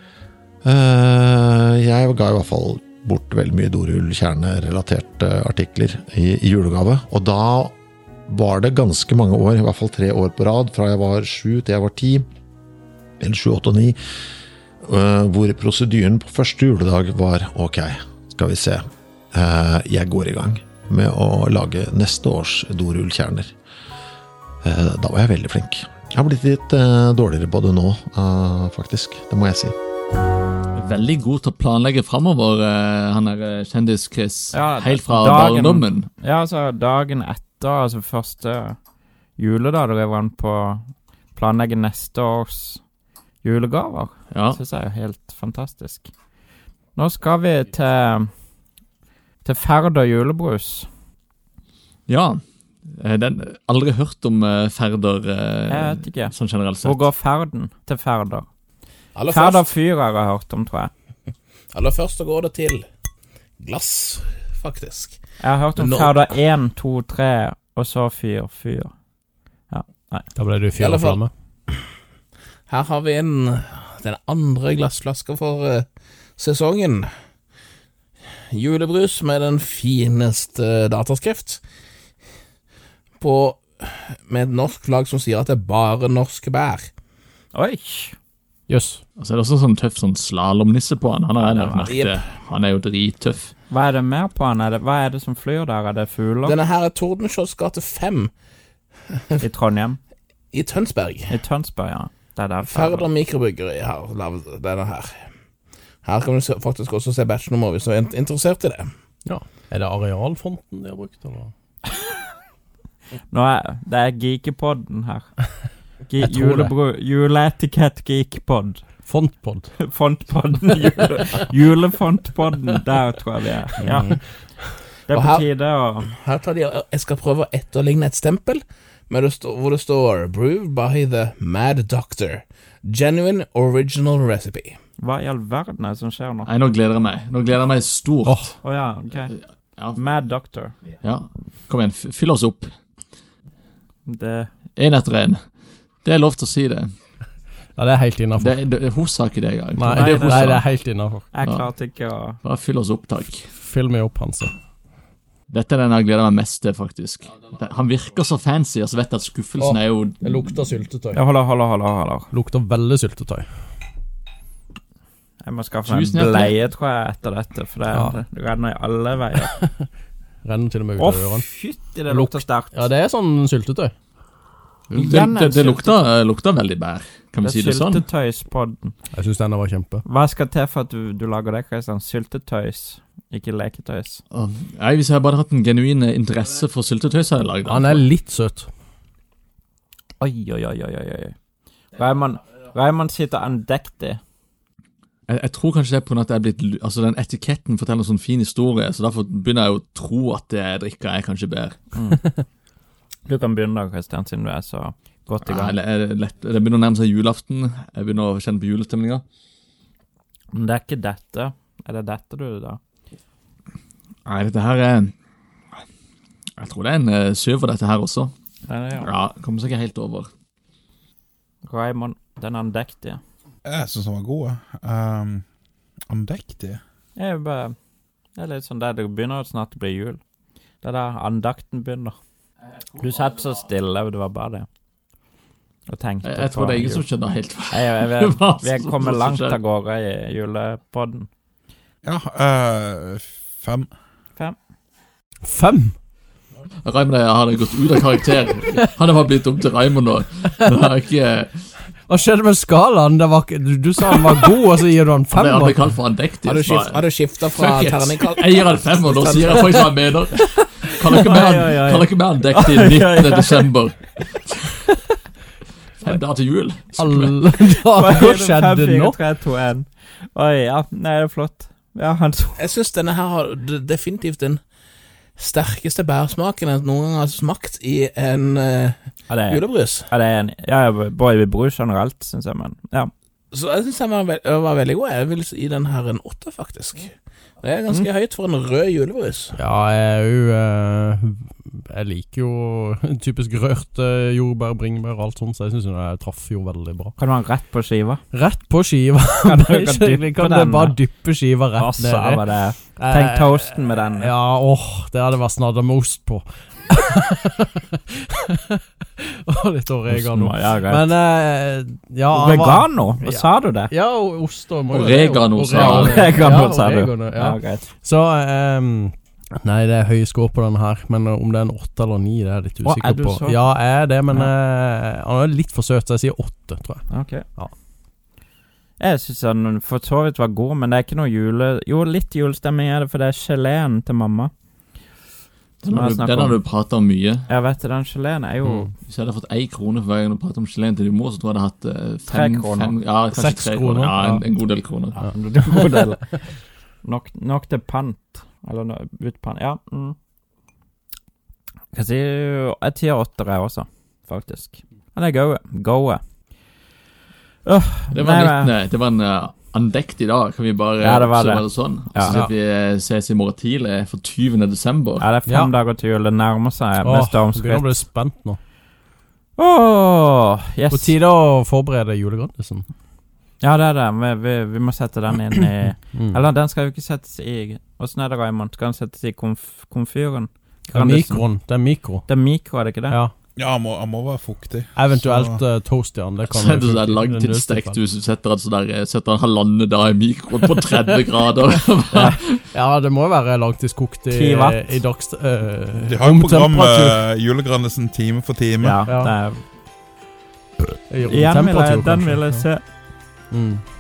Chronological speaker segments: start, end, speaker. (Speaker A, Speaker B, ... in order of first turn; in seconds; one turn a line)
Speaker A: 0.6-7.7
Speaker A: 8.3-12.3
Speaker A: 13.2-14.0
Speaker A: 14.8-23.5
Speaker A: 24.6-29.7
Speaker B: 30.8-36.1
Speaker C: 34.5-38.8
Speaker C: 39.4-42.8
Speaker C: 43.4-46.1
Speaker B: 44.3-44.6
Speaker C: 47.0-48.3
Speaker C: 49.4-50.9
Speaker B: 52.1-57.1
Speaker C: 55.7-58.5
Speaker D: 59.1-59.6
Speaker C: 59.3-60.9
Speaker D: 61.7-62.9
Speaker D: 63.6-65.2
Speaker C: 65.4-68.9
Speaker D: 65.8-66.4
Speaker C: 69.7-70.3
Speaker E: 70.3-71.3
Speaker D: 70.8-71.2
Speaker D: 72.7-77.1
Speaker D: 78.5-81.6
Speaker D: 83.2-86.9
Speaker C: 87.5-88.2
Speaker E: 88.7-89.0
Speaker B: 89.2-93.5
Speaker C: 91.4-91.9
Speaker D: 91.9-92.3
Speaker C: 93.7-96.6
Speaker D: 96.5-98.3
Speaker D: 99.1-99.4
Speaker C: 99.4-100.0
Speaker D: 100.5-101.3
Speaker C: 101.3-103.1
Speaker D: 102.7-105.2
Speaker D: 106.0-108.9
Speaker E: 109.3-111.5
Speaker C: 113.3-115.3
Speaker C: 116.1-118.9
Speaker E: 116.2-116.8
Speaker E: 119.1-119.7
Speaker C: 119.8-124.5
Speaker E: 123.8-124.7
Speaker C: 125.1-126.1
Speaker D: 125.1-125.5
Speaker D: 126.1-134.8
Speaker C: 135.0-136.5
Speaker B: 136.4-138.6
Speaker E: 138.3-138.5
Speaker C: 138.6-139.3
Speaker C: 139.9-140.8
Speaker B: 141.0-142.8
Speaker C: 144.1-144.5
Speaker B: 144.8-145.4
Speaker B: 146.0-146.9
Speaker E: 147.8-148.5
Speaker B: 148.4-150.7
Speaker E: 149.8-151.3
Speaker C: 149.9-150.5
Speaker C: 151.3-152.4
Speaker B: 152.4-153.5
Speaker E: 153.6-154.5
Speaker B: 155.5-160.7
Speaker E: 159.6-161.2
Speaker C: 161.1-162.3
Speaker E: 162.3-163.5
Speaker C: 165.4-169.5
Speaker B: 165.9-166.6
Speaker E: 167.9-168.2
Speaker E: 169.4-169.9
Speaker E: 170.4-171.5
Speaker C: 171.0-172.9
Speaker E: 172.1-173.9
Speaker B: 174.9-178.1
Speaker C: 175.0-176.0
Speaker C: 177.4-178.9
Speaker E: 179.1-180.0
Speaker C: 180.1-184.2
Speaker B: 184.3-188.1
Speaker E: 187.7-188.7
Speaker C: 190.2-191.3
Speaker C: 191.9-194.2
Speaker B: 195.3-201.9
Speaker C: 201.9-202.3
Speaker C: 203.3-205.8
Speaker B: 205.4-209.2
Speaker C: 210.5-212.8
Speaker B: 214.2-215.1
Speaker B: 216.6-218.3
Speaker C: 218.7-219.1
Speaker B: 219.0-220.3
Speaker C: 221.7-223.2
Speaker F: 223.7-225.5
Speaker F: 226.1-226.8
Speaker C: 227.2-227.8
Speaker C: 228.4-230.2
Speaker C: 230.8-232.2
Speaker C: 233.0-234.7
Speaker C: 235.9-237.1
Speaker B: 236.2-239.6
Speaker C: 237.7-241.3
Speaker F: 242.0-243.9
Speaker E: 245.4-245.9
Speaker B: 246.8-251.7
Speaker E: 252.1-255.8
Speaker B: 255.3-264.6
Speaker D: 256.4-259.9
Speaker C: 260.9-263.7
Speaker B: 266.0-267.6
Speaker E: 267.0-269.2
Speaker C: 267.9-272.6
Speaker D: 272.6-274.6
Speaker D: 275.4-280.1
Speaker C: 279.3-283.1
Speaker D: 283.5-289.5
Speaker E: 289.6-297.2
Speaker C: 297.2-298.2
Speaker E: 298.3-327.7
Speaker C: 299.4-301.0
Speaker C: 301.8-304.3
Speaker C: 310.1-311.1
Speaker C: 312.3-313.9
Speaker B: 314.9-316.3
Speaker C: 315.8-317.9
Speaker C: 322.9-323.7
Speaker C: 327.1-327.5
Speaker C: 329.0-334.5
Speaker B: 335.8-337.5
Speaker C: 335.9-336.6
Speaker C: 337.5-338.9
Speaker E: 338.6-338.9
Speaker B: 339.0-345.3
Speaker C: 342.3-343.0
Speaker E: 343.3-344.4
Speaker E: 345.2-346.1
Speaker C: 345.3-346.4
Speaker C: 347.0-350.2
Speaker C: 351.9-356.2
Speaker C: 357.6-358.7
Speaker B: 358.1-365.3
Speaker C: 361.0-362.4
Speaker C: 365.2-368.0
Speaker E: 365.5-365.8
Speaker E: 367.0-368.6
Speaker C: 369.6-371.1
Speaker E: 370.9-372.9
Speaker C: 373.6-381.5
Speaker E: 376.1-376.5
Speaker E: 380.9-382.3
Speaker C: 382.3-383.2
Speaker E: 383.1-383.3
Speaker F: 383.6-385.6
Speaker E: 385.0-388.0
Speaker B: 386.4-392.4
Speaker E: 390.7-391.3
Speaker E: 392.1-397.2
Speaker C: 394.3-394.9
Speaker F: 396.0-399.1
Speaker C: 398.8-399.7
Speaker E: 399.1-399.4
Speaker E: 401.1-402.7
Speaker C: 401.2-402.9
Speaker E: 403.5-403.8